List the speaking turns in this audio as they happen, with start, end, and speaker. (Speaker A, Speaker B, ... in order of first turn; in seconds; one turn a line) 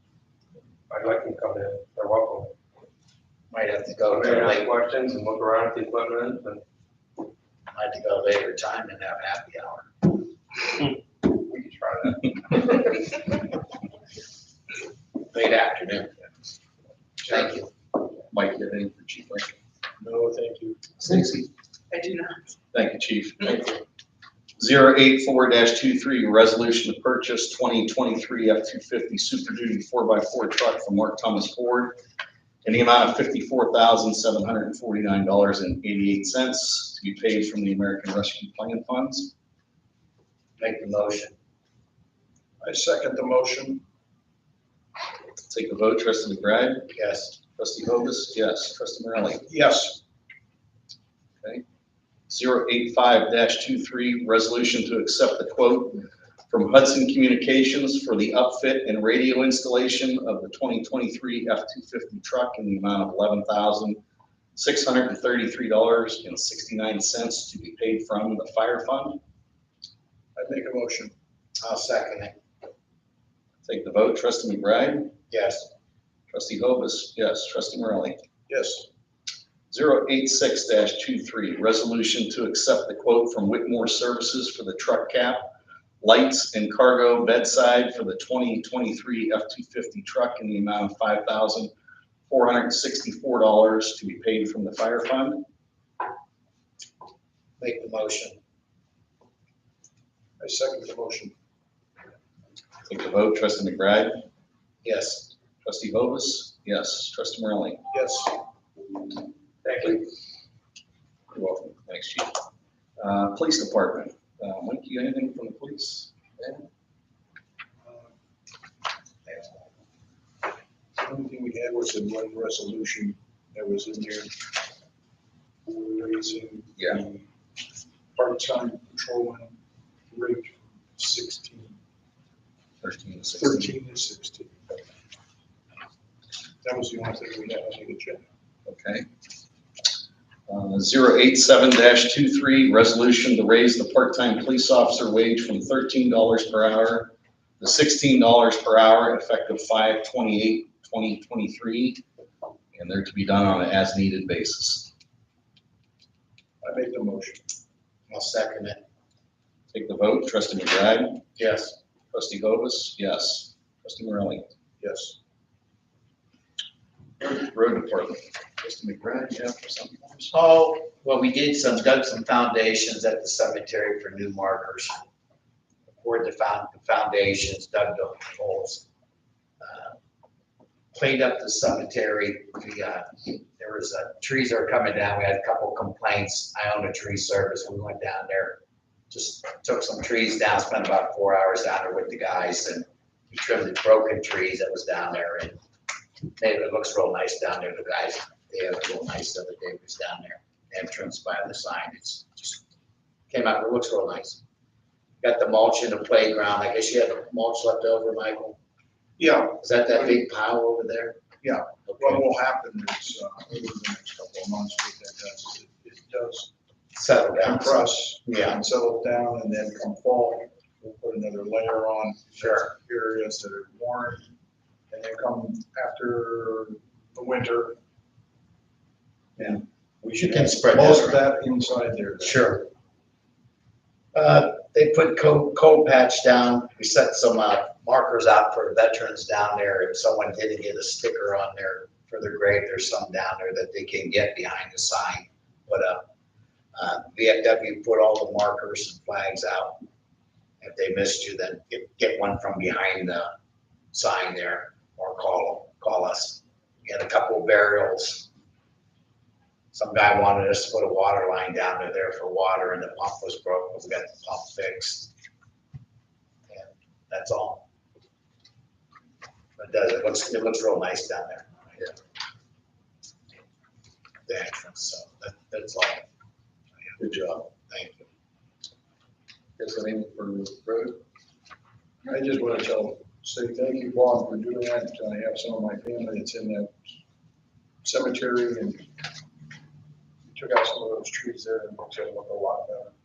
Speaker A: 0.9-2.5
Speaker B: 3.5-4.7
Speaker A: 4.1-6.6
Speaker B: 7.7-10.2
Speaker A: 11.2-12.8
Speaker B: 15.3-16.1
Speaker B: 17.2-17.7
Speaker C: 18.3-19.6
Speaker D: 20.0-20.8
Speaker C: 21.0-21.5
Speaker C: 22.7-23.8
Speaker C: 24.6-32.0
Speaker C: 32.6-39.3
Speaker B: 40.6-41.4
Speaker D: 42.6-43.8
Speaker C: 45.5-46.9
Speaker B: 46.9-47.4
Speaker C: 47.5-49.5
Speaker D: 49.5-50.0
Speaker C: 52.3-64.0
Speaker C: 64.6-69.2
Speaker D: 70.4-71.1
Speaker B: 71.6-72.4
Speaker C: 73.7-75.1
Speaker B: 75.3-75.7
Speaker C: 76.3-78.2
Speaker D: 78.5-78.9
Speaker C: 79.7-85.5
Speaker C: 86.0-91.7
Speaker C: 92.3-95.5
Speaker B: 97.6-98.4
Speaker D: 100.4-101.3
Speaker C: 102.9-104.2
Speaker B: 104.8-105.3
Speaker C: 105.6-107.8
Speaker D: 107.9-108.3
Speaker A: 109.6-110.0
Speaker C: 111.3-112.3
Speaker C: 113.0-116.7
Speaker D: 117.8-118.1
Speaker D: 119.3-119.6
Speaker D: 121.0-124.3
Speaker D: 125.7-127.3
Speaker D: 128.2-129.6
Speaker D: 130.1-131.8
Speaker C: 132.8-133.7
Speaker D: 133.3-134.6
Speaker D: 136.6-138.3
Speaker C: 138.7-139.1
Speaker C: 140.5-152.0
Speaker C: 152.8-154.9
Speaker D: 156.6-157.4
Speaker B: 158.1-158.8
Speaker C: 159.7-161.2
Speaker B: 161.4-161.8
Speaker C: 162.1-164.5
Speaker D: 164.8-165.2
Speaker C: 167.2-170.3
Speaker B: 170.3-175.0
Speaker B: 175.9-178.9
Speaker B: 179.6-180.0
Speaker B: 180.9-188.6
Speaker B: 189.1-195.6
Speaker B: 196.4-202.6
Speaker B: 203.3-204.4
Speaker B: 205.2-208.6
Speaker D: 209.2-209.6
Speaker B: 209.6-211.2
Speaker D: 211.4-216.5
Speaker B: 211.9-212.2
Speaker B: 216.9-218.6
Speaker D: 217.4-224.3
Speaker B: 222.4-222.7
Speaker D: 224.9-227.8
Speaker B: 229.4-231.2
Speaker D: 230.2-232.4
Speaker B: 232.2-232.7
Speaker B: 234.1-246.1
Speaker B: 246.8-249.8
Speaker B: 250.6-253.3
Speaker B: 253.9-258.3
Speaker B: 259.7-265.1
Speaker B: 266.5-267.6
Speaker B: 269.6-271.9
Speaker B: 274.3-276.1
Speaker B: 276.9-278.1
Speaker C: 277.0-277.3
Speaker C: 279.6-281.0
Speaker D: 282.1-286.8
Speaker D: 287.8-288.9
Speaker D: 290.3-292.9